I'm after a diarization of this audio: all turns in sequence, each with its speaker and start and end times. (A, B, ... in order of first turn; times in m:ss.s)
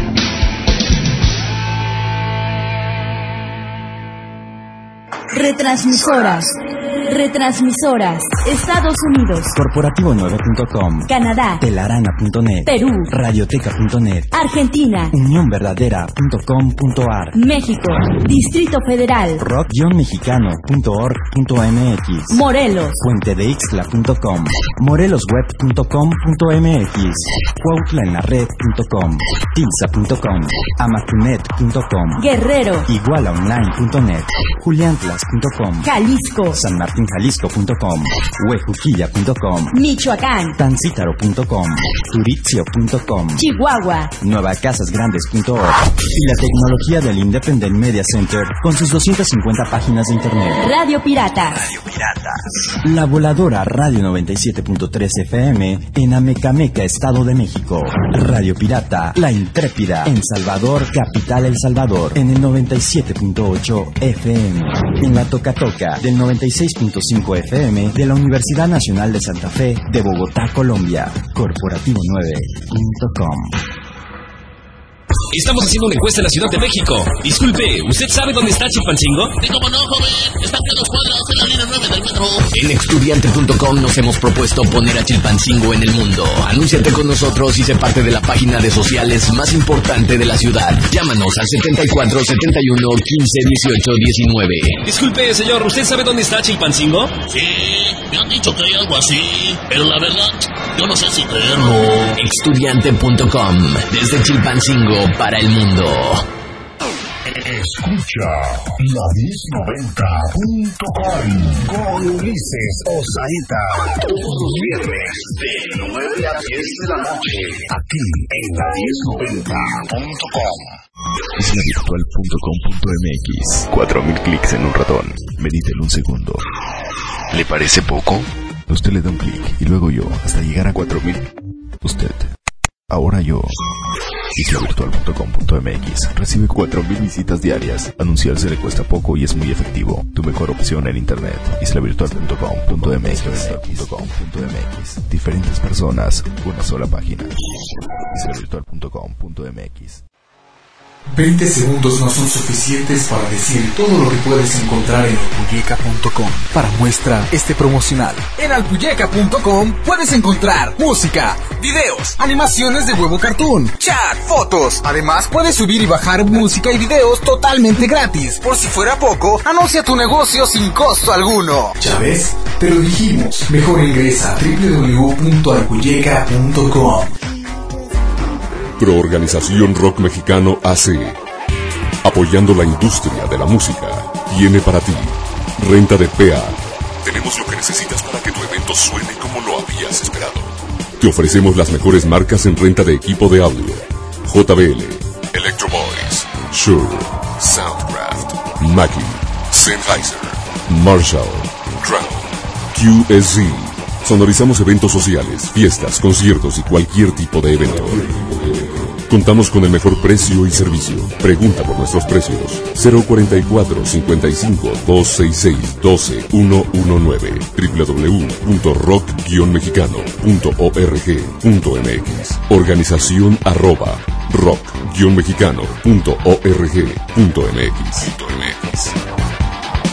0:05.3-0:09.5 A
0:09.5-0:11.1 B
0:11.1-0:11.6 A
0:11.6-0:14.3 B
0:12.6-0:13.1 A
0:14.3-0:15.1 A
0:15.1-0:17.4 B
0:17.3-0:19.4 A
0:19.4-0:22.4 B
0:22.3-0:23.0 A
0:23.0-0:32.2 B
0:32.2-0:32.9 A
0:32.9-0:35.9 B
0:35.8-0:36.6 A
0:36.5-0:39.8 B
0:39.7-0:40.6 A
0:40.6-0:43.4 B
0:43.4-0:44.1 A
0:44.2-0:50.6 B
0:50.6-0:51.6 A
0:51.6-1:13.6 B
1:15.3-1:19.4 C
1:19.3-1:22.5 D
1:22.5-1:34.8 C
1:34.8-1:42.2 D
1:42.2-1:46.2 C
1:47.2-2:00.8 E
2:01.4-2:06.4 F
2:07.3-2:11.3 F
2:11.8-2:12.3 F
2:12.9-2:13.6 F
2:14.4-2:27.4 F
2:28.0-2:30.0 F
2:31.1-2:57.1 G
2:58.8-3:01.2 H
3:02.0-3:48.9 H